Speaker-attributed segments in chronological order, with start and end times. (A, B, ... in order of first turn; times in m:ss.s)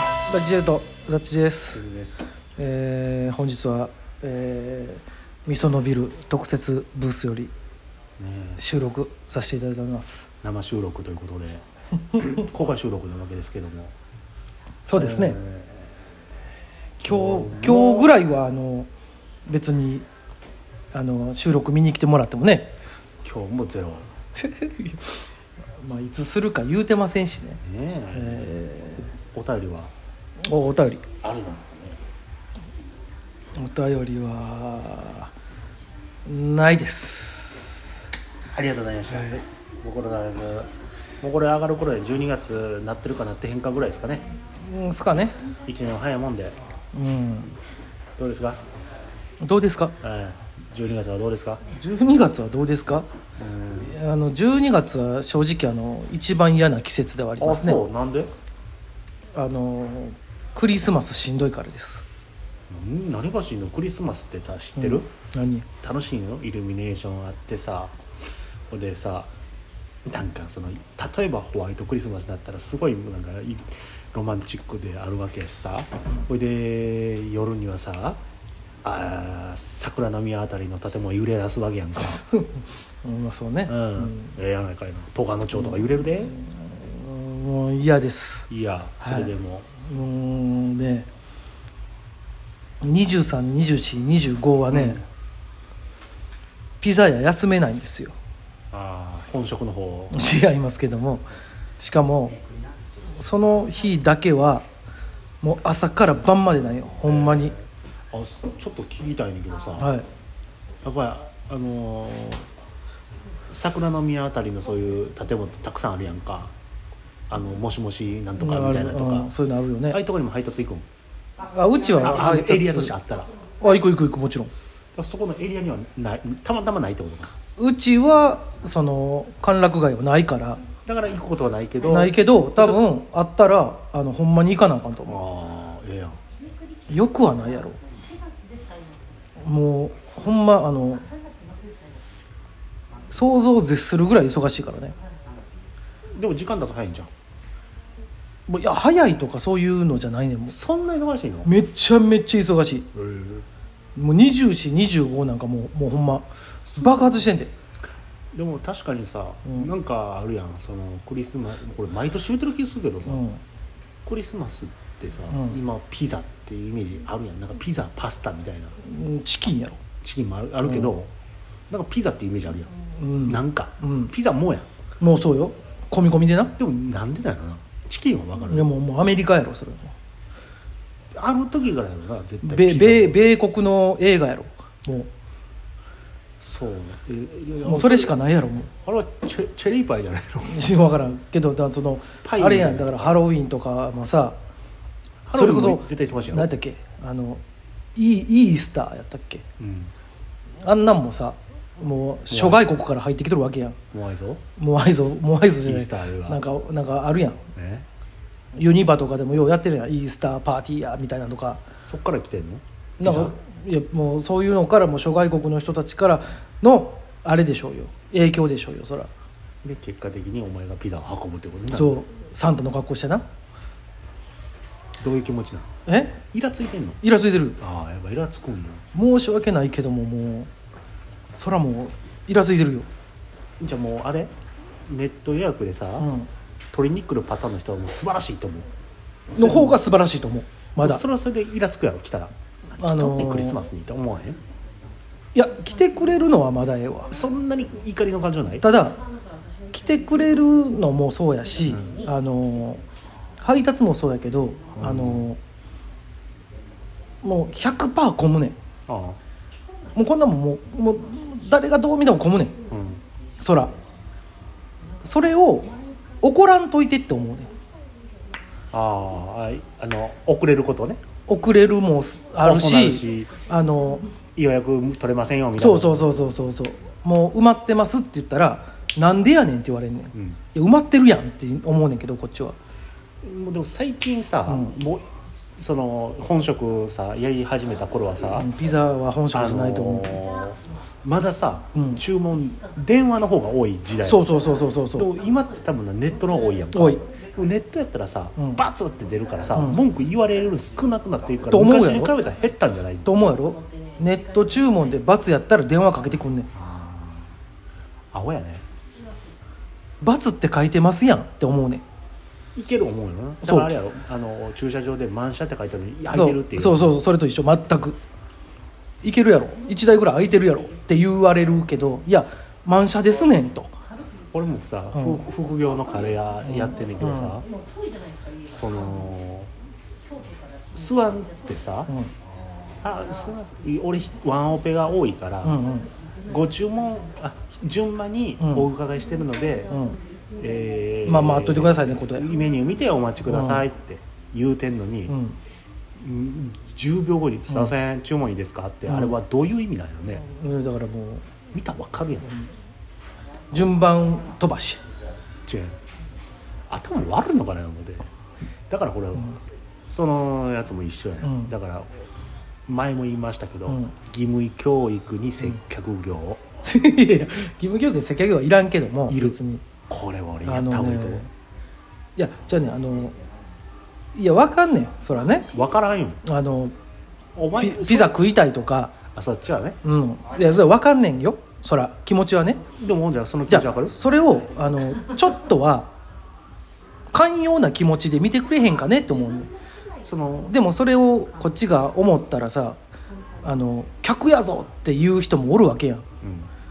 0:00.3-0:01.8 A
0:01.7-0:02.3 B
0:02.6-0:07.5 A
0:08.2-0:08.6 B
0:08.6-0:10.3 A
0:10.4-0:11.6 B
0:12.1-0:13.9 B
0:14.8-0:15.4 A
0:14.9-0:15.9 B
0:17.0-0:18.9 A
0:17.0-0:18.1 B
0:19.5-0:20.0 A
0:20.9-0:22.7 A
0:23.2-0:24.1 B
0:24.4-0:25.3 A
0:25.8-0:27.6 A
0:27.6-0:29.9 B
0:28.1-0:29.1 A
0:30.4-0:31.0 A
0:31.2-0:32.0 B
0:33.6-0:35.3 A
0:36.2-0:37.8 A
0:38.5-0:44.4 B
0:44.6-0:45.4 A
0:45.6-0:46.6 B
0:46.9-0:47.6 A
0:48.2-0:48.6 B
0:49.4-0:49.9 A
0:50.0-0:51.6 B
0:51.8-0:53.0 A
0:53.4-0:54.0 B
0:53.8-0:57.8 A
0:57.4-0:58.3 B
0:59.3-1:02.0 A
1:02.7-1:05.1 B
1:04.8-1:05.7 A
1:05.8-1:08.0 B
1:08.7-1:09.3 B
1:10.0-1:18.2 B
1:18.8-1:22.2 B
1:22.0-1:24.3 A
1:23.7-1:26.3 B
1:25.5-1:28.5 A
1:28.5-1:29.7 B
1:29.0-1:29.3 A
1:29.8-1:31.1 A
1:32.8-1:35.0 A
1:34.7-1:35.0 B
1:36.8-1:38.2 A
1:38.7-1:40.2 B
1:40.1-1:41.2 A
1:41.8-1:42.4 A
1:43.1-1:44.6 A
1:45.4-1:47.5 A
1:47.0-1:49.9 B
1:49.8-1:50.1 A
1:50.8-1:52.4 B
1:53.5-1:56.5 B
1:57.3-1:59.3 B
1:58.4-2:00.0 A
1:59.9-2:00.8 B
2:01.4-2:02.9 A
2:01.9-2:03.4 B
2:03.6-2:04.5 A
2:04.9-2:07.3 B
2:07.6-2:10.6 A
2:10.8-2:12.8 B
2:11.8-2:15.2 A
2:15.0-2:16.2 B
2:16.9-2:17.9 A
2:17.9-2:18.9 C
2:19.4-2:21.1 A
2:21.3-2:22.0 C
2:23.1-2:25.0 A
2:26.1-2:27.1 B
2:28.5-2:30.6 A
2:30.5-2:31.5 B
2:31.4-2:32.9 A
2:32.9-2:33.4 B
2:34.0-2:37.5 A
2:38.3-2:43.2 B
2:43.1-2:43.4 A
2:44.0-2:48.8 B
2:45.3-2:45.6 A
2:48.8-2:49.8 A
2:50.0-2:51.1 B
2:50.6-2:50.9 A
2:51.7-2:52.7 B
2:53.0-2:54.1 A
2:53.2-2:54.7 B
2:55.0-2:56.5 A
2:56.6-2:58.7 B
2:58.5-2:59.9 A
3:01.1-3:03.2 B
3:02.4-3:05.1 A
3:06.4-3:08.1 B
3:07.6-3:08.7 A
3:08.8-3:10.6 B
3:10.4-3:14.4 A
3:12.2-3:13.1 B
3:15.2-3:16.5 B
3:15.3-3:17.4 A
3:18.0-3:19.4 A
3:19.6-3:19.9 B
3:20.6-3:23.8 A
3:22.3-3:22.7 B
3:23.9-3:24.4 B
3:24.6-3:27.4 A
3:25.6-3:26.4 B
3:27.5-3:27.9 B
3:28.6-3:31.6 A
3:31.8-3:33.4 B
3:33.0-3:39.1 A
3:39.6-3:42.0 B
3:41.7-3:43.2 A
3:45.0-3:45.7 B
3:45.9-3:46.2 A
3:46.2-3:47.0 B
3:47.0-3:47.6 A
3:47.6-3:48.8 B
3:48.9-3:50.5 A
3:51.3-3:52.9 A
3:53.6-3:54.3 B
3:54.8-3:56.1 B
3:56.0-3:56.3 A
3:56.7-3:58.7 B
3:59.3-3:59.8 B
3:59.4-4:01.0 A
4:00.8-4:04.4 B
4:02.8-4:03.6 A
4:05.3-4:07.1 A
4:07.1-4:08.7 B
4:08.6-4:09.0 A
4:09.7-4:12.8 A
4:11.6-4:12.0 B
4:13.4-4:15.4 A
4:14.7-4:15.3 B
4:17.2-4:18.6 A
4:18.9-4:19.2 B
4:19.9-4:22.5 A
4:22.7-4:23.0 B
4:23.4-4:23.7 A
4:25.0-4:25.7 A
4:26.2-4:27.5 A
4:28.7-4:31.0 B
4:31.3-4:34.1 A
4:32.4-4:33.4 B
4:34.4-4:36.1 B
4:35.6-4:42.6 A
4:40.1-4:40.4 B
4:43.2-4:48.5 B
4:44.5-4:44.8 A
4:48.4-4:50.2 A
4:49.3-4:54.3 B
4:51.7-4:52.0 A
4:54.0-4:55.1 A
4:54.9-5:03.1 B
4:56.7-4:57.0 A
4:59.5-4:59.8 A
5:01.5-5:02.2 A
5:03.0-5:06.5 A
5:06.5-5:07.3 B
5:08.1-5:08.6 B
5:10.0-5:11.8 A
5:12.5-5:16.9 B
5:13.4-5:13.7 A
5:16.1-5:18.0 A
5:19.0-5:23.7 A
5:24.3-5:27.4 B
5:24.9-5:25.2 A
5:26.4-5:27.4 A
5:27.5-5:28.3 C
5:28.4-5:29.5 B
5:30.2-5:30.7 C
5:30.7-5:31.9 B
5:31.9-5:32.1 A
5:32.8-5:35.6 B
5:35.4-5:35.9 A
5:36.2-5:39.8 B
5:38.4-5:38.7 A
5:39.7-5:40.0 A
5:40.4-5:45.2 B
5:41.0-5:42.3 A
5:43.2-5:43.6 A
5:45.1-5:45.4 A
5:46.0-5:50.2 B
5:48.9-5:49.2 A
5:50.2-5:51.2 A
5:51.5-5:52.3 B
5:53.5-5:54.8 A
5:55.4-5:55.8 B
5:56.7-5:58.1 B
5:58.7-6:01.9 B
6:01.2-6:01.5 A
6:02.7-6:06.4 B
6:03.7-6:03.9 A
6:06.6-6:09.6 A
6:09.1-6:11.2 B
6:10.4-6:11.3 A
6:12.2-6:13.2 A
6:14.1-6:15.5 A
6:15.4-6:16.2 B
6:16.2-6:16.7 A
6:17.4-6:18.2 B
6:17.5-6:18.9 A
6:19.1-6:19.8 B
6:19.8-6:22.6 A
6:22.7-6:24.0 B
6:23.5-6:25.9 A
6:27.1-6:29.5 A
6:30.0-6:30.5 B
6:30.4-6:32.8 A
6:33.4-6:36.0 A
6:36.2-6:36.5 B